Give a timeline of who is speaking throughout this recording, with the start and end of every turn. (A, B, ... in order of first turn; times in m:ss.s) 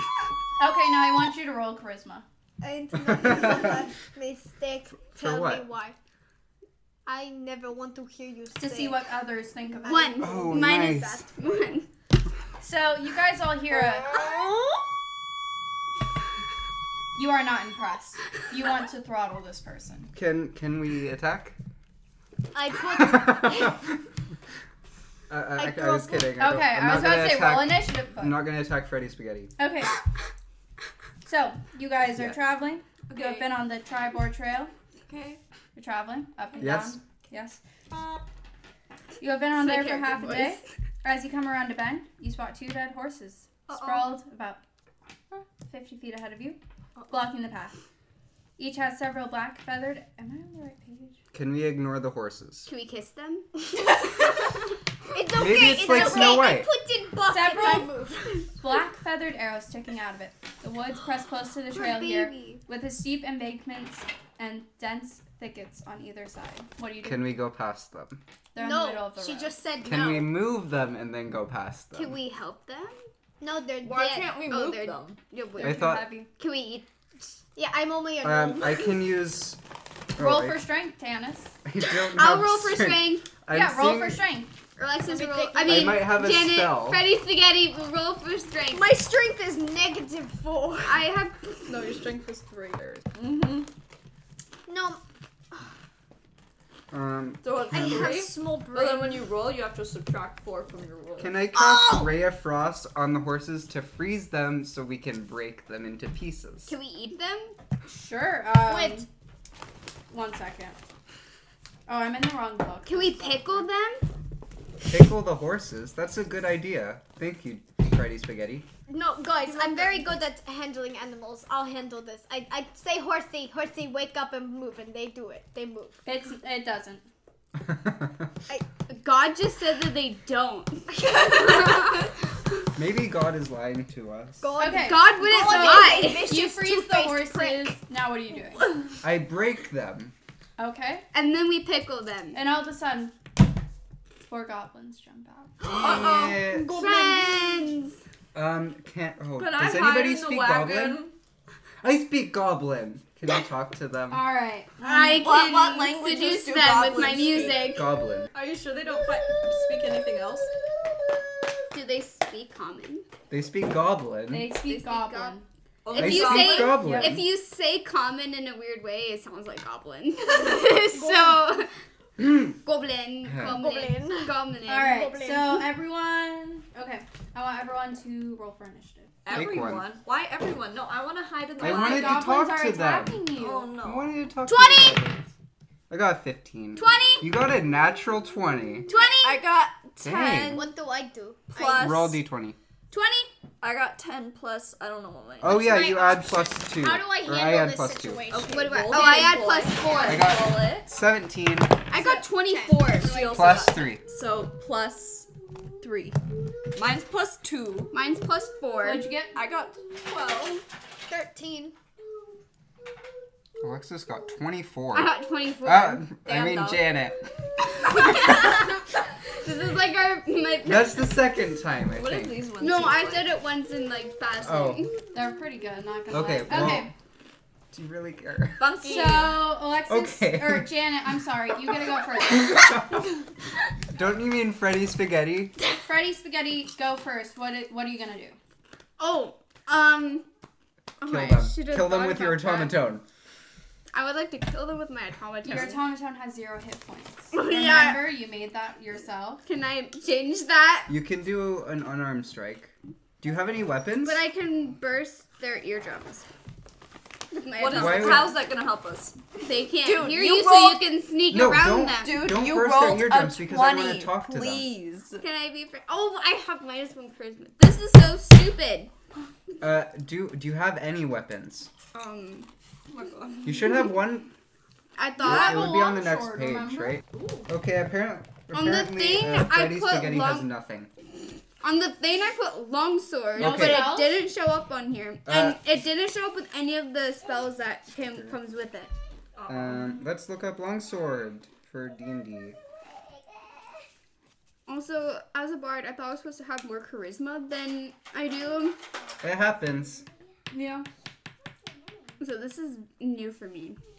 0:00.6-0:02.2 A
0:02.6-0:06.0 B
0:03.0-0:03.8 C
0:05.1-0:05.6 C
0:07.0-0:09.1 B
0:08.6-0:10.2 A
0:09.7-0:11.6 B
0:09.8-0:11.9 D
0:10.2-0:11.2 C
0:12.6-0:14.2 A
0:14.0-0:14.8 B
0:17.1-0:20.1 A
0:20.1-0:21.6 C
0:22.5-0:23.8 B
0:23.0-0:23.8 C
0:25.3-0:29.5 C
0:25.6-0:26.4 B
0:26.4-0:28.4 A
0:29.6-0:30.0 A
0:31.2-0:34.7 A
0:33.1-0:33.5 E
0:35.0-0:35.4 E
0:35.7-0:37.6 A
0:36.6-0:37.0 C
0:39.2-0:44.6 A
0:39.6-0:40.6 D
0:43.7-0:44.1 E
0:45.3-0:47.7 A
0:48.6-0:51.2 A
0:51.3-0:52.7 C
0:52.7-0:53.5 D
0:55.1-0:58.5 B
0:55.4-0:56.7 C
0:55.9-0:56.3 A
0:57.3-0:57.9 A
0:58.6-1:07.3 A
1:01.7-1:02.6 D
1:07.0-1:08.2 C
1:08.5-1:09.6 A
1:08.6-1:10.3 B
1:09.8-1:12.2 C
1:11.9-1:13.0 D
1:13.4-1:14.4 B
1:13.8-1:15.2 E
1:14.4-1:16.8 D
1:15.6-1:16.3 A
1:15.6-1:16.1 C
1:17.6-1:19.0 B
1:18.2-1:19.6 C
1:20.1-1:20.6 C
1:20.2-1:21.5 A
1:21.6-1:24.2 C
1:22.1-1:23.2 D
1:23.5-1:24.5 A
1:24.8-1:28.9 D
1:25.0-1:26.2 B
1:25.6-1:27.1 C
1:28.7-1:31.1 B
1:30.8-1:32.0 D
1:31.7-1:33.7 E
1:34.7-1:35.0 B
1:36.9-1:38.2 C
1:37.4-1:41.3 E
1:37.7-1:39.2 B
1:41.2-1:46.7 C
1:41.5-1:42.1 B
1:46.7-1:47.6 D
1:47.9-1:49.1 A
1:48.7-1:49.0 B
1:50.1-1:50.8 A
1:51.9-1:53.5 A
1:52.8-1:54.0 D
1:54.9-1:58.7 C
1:58.9-2:06.0 B
1:59.6-1:59.9 A
2:06.0-2:07.0 A
2:07.6-2:08.3 C
2:08.9-2:12.7 D
2:11.1-2:11.6 B
2:12.8-2:14.5 C
2:14.4-2:17.7 B
2:14.6-2:18.7 A
2:14.7-2:16.3 D
2:19.0-2:20.1 C
2:20.6-2:21.0 A
2:21.1-2:22.4 D
2:22.3-2:23.1 A
2:24.2-2:25.6 A
2:25.6-2:27.7 B
2:25.7-2:26.7 C
2:25.7-2:26.4 E
2:26.7-2:28.0 D
2:28.3-2:31.0 C
2:29.4-2:31.1 E
2:31.8-2:34.3 C
2:34.1-2:34.8 A
2:34.8-2:37.9 D
2:34.8-2:37.6 E
2:37.7-2:38.3 C
2:38.3-2:40.5 E
2:41.7-2:43.0 D
2:43.3-2:44.5 C
2:44.3-2:45.4 A
2:44.6-2:45.4 D
2:45.8-2:46.8 E
2:45.9-2:51.7 D
2:46.0-2:47.2 C
2:46.8-2:47.2 A
2:50.3-2:51.4 B
2:52.2-2:52.6 C
2:52.6-2:54.9 D
2:53.2-2:53.6 C
2:53.4-2:55.7 B
2:54.7-2:59.2 A
2:59.2-3:02.3 E
2:59.3-2:59.8 C
3:01.6-3:03.2 C
3:01.6-3:03.7 A
3:03.4-3:04.1 E
3:03.8-3:05.2 C
3:04.4-3:05.0 D
3:05.9-3:08.9 C
3:06.8-3:07.3 D
3:08.9-3:09.4 D
3:09.0-3:10.7 E
3:10.0-3:10.6 C
3:10.5-3:11.9 B
3:11.5-3:12.2 E
3:11.8-3:12.6 C
3:12.9-3:13.3 D
3:13.6-3:15.6 E
3:15.4-3:18.2 C
3:15.4-3:19.2 B
3:18.3-3:20.9 E
3:18.5-3:20.4 D
3:20.0-3:21.8 C
3:21.9-3:23.3 D
3:21.9-3:23.6 B
3:23.0-3:25.3 E
3:23.3-3:24.0 C
3:25.8-3:26.2 E
3:26.7-3:27.9 E
3:27.9-3:29.1 D
3:28.8-3:29.4 A
3:29.3-3:30.6 E
3:31.1-3:31.7 B
3:33.6-3:37.3 C
3:34.9-3:36.0 D
3:36.2-3:36.9 E
3:37.7-3:41.1 D
3:40.6-3:42.4 C
3:41.9-3:43.3 E
3:42.6-3:45.0 D
3:44.4-3:44.9 C
3:45.1-3:46.9 A
3:46.1-3:46.9 C
3:47.7-3:48.6 C
3:48.6-3:49.4 E
3:48.8-3:52.6 A
3:49.9-3:50.8 C
3:52.4-3:53.0 C
3:53.9-3:55.5 C
3:55.8-3:58.4 A
3:59.0-4:00.2 D
4:01.0-4:02.8 D
4:01.1-4:03.0 C
4:03.9-4:05.8 D
4:05.4-4:09.4 A
4:07.3-4:08.1 D
4:09.4-4:10.9 D
4:10.9-4:14.2 C
4:14.0-4:16.2 D
4:17.3-4:18.3 D
4:17.6-4:19.2 E
4:17.7-4:18.4 C
4:19.4-4:22.2 D
4:19.8-4:20.8 E
4:21.3-4:24.7 C
4:22.0-4:25.2 E
4:25.2-4:28.9 D
4:29.6-4:31.7 C
4:31.9-4:32.5 D
4:32.9-4:33.5 E
4:33.4-4:34.3 C
4:35.0-4:35.8 D
4:35.2-4:40.9 C
4:35.2-4:37.0 A
4:38.5-4:40.5 D
4:41.6-4:48.9 D
4:43.4-4:43.9 C
4:43.4-4:44.2 A
4:45.2-4:45.6 C
4:49.4-4:50.0 E
4:49.5-4:52.6 C
4:54.7-4:58.8 D
4:59.2-5:00.0 C
5:00.5-5:00.9 A
5:02.2-5:03.8 D